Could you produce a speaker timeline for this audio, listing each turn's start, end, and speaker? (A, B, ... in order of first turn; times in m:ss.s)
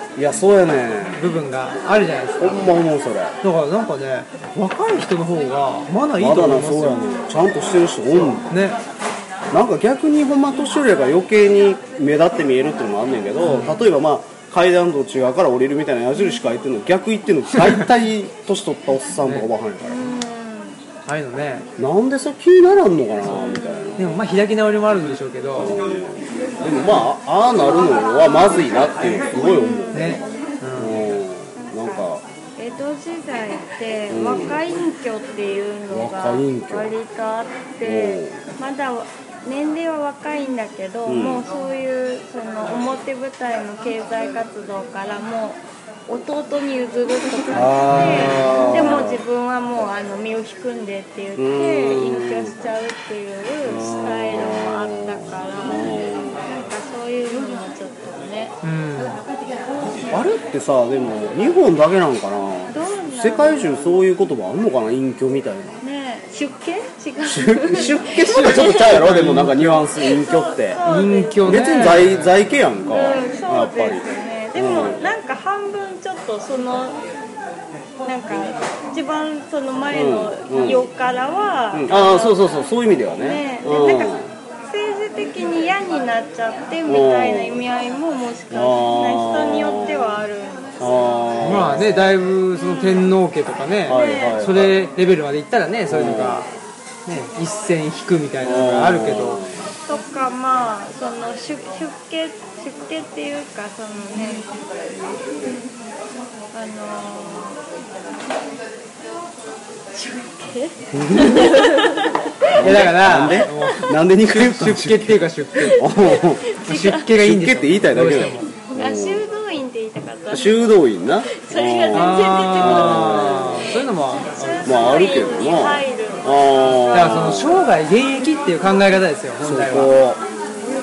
0:00.2-0:01.3 A
0:01.2-0:02.8 B
0:02.4-0:03.4 A
0:03.4-0:07.0 B
0:06.2-0:08.5 A
0:08.1-0:08.8 B
0:09.5-0:20.2 A
0:13.4-0:13.8 B
0:17.6-0:17.8 B
0:19.8-0:20.8 C
0:21.1-0:21.7 B
0:21.8-0:24.1 A
0:23.3-0:23.9 C
0:24.0-0:25.8 B
0:25.6-0:30.2 A
0:29.4-0:30.2 C
0:29.9-0:31.0 B
0:30.8-0:32.2 A
0:31.6-0:32.0 C
0:32.6-0:58.6 C
0:34.1-0:34.6 A
0:35.9-0:37.0 A
0:37.8-0:38.4 A
0:41.1-0:41.4 A
0:47.5-0:49.2 A
0:47.9-0:48.6 B
0:51.4-0:52.5 A
0:53.6-0:56.5 A
0:58.6-0:59.2 B
1:00.1-1:05.8 A
1:02.7-1:03.9 C
1:05.8-1:09.0 C
1:07.2-1:10.8 A
1:08.8-1:09.9 B
1:10.0-1:12.1 C
1:10.8-1:12.3 B
1:11.4-1:14.0 A
1:12.9-1:17.0 C
1:14.6-1:15.0 A
1:18.0-1:22.4 C
1:19.9-1:20.9 A
1:21.7-1:24.3 A
1:23.1-1:24.2 C
1:24.7-1:31.0 C
1:26.9-1:27.6 A
1:28.5-1:30.2 A
1:30.8-1:32.1 A
1:31.4-1:36.5 B
1:33.9-1:34.8 A
1:33.9-1:34.4 C
1:35.9-1:36.5 A
1:37.1-1:39.4 B
1:38.4-1:39.7 A
1:39.9-1:44.5 C
1:46.5-1:47.6 C
1:50.0-1:52.8 C
1:50.9-1:51.8 A
1:52.5-1:56.6 A
1:52.5-1:55.9 B
1:55.8-1:57.1 C
1:56.6-1:58.5 B
1:57.1-1:59.2 A
1:58.7-2:00.7 C
2:00.3-2:03.7 A
2:01.3-2:03.6 C
2:01.9-2:04.8 B
2:04.3-2:07.0 C
2:04.6-2:07.7 A
2:06.9-2:09.9 B
2:09.4-2:10.2 A